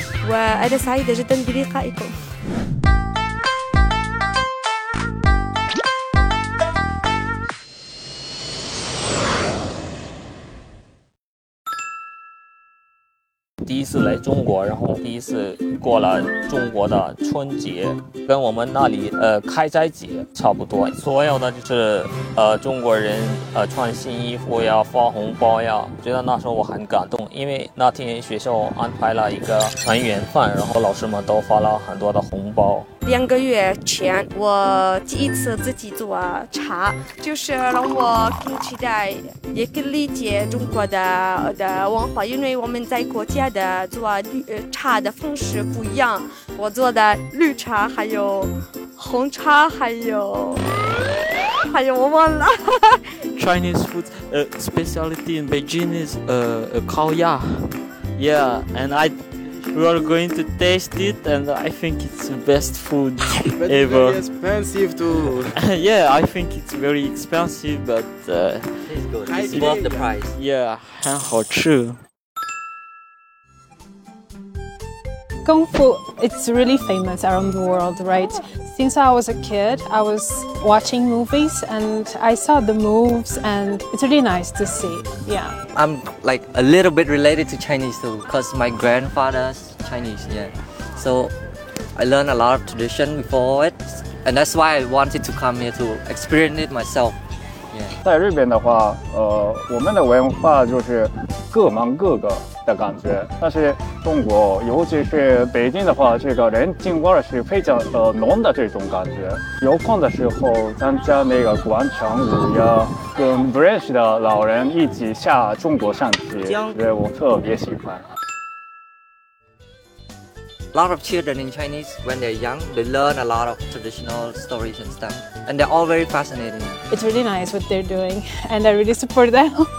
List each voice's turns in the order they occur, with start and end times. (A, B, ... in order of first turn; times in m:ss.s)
0:00.2-0:02.1 A
0:13.6-0:32.9 B
0:33.0-0:50.7 A
0:51.6-0:53.1 A
0:53.4-1:04.2 C
1:03.6-1:05.6 D
1:05.6-1:12.0 C
1:08.8-1:10.4 E
1:09.2-1:10.2 D
1:15.4-1:25.6 F
1:25.7-1:31.3 E
1:32.0-1:37.2 E
1:37.7-1:38.0 E
1:38.0-1:58.0 G
2:00.7-2:06.8 E
2:06.9-2:09.7 F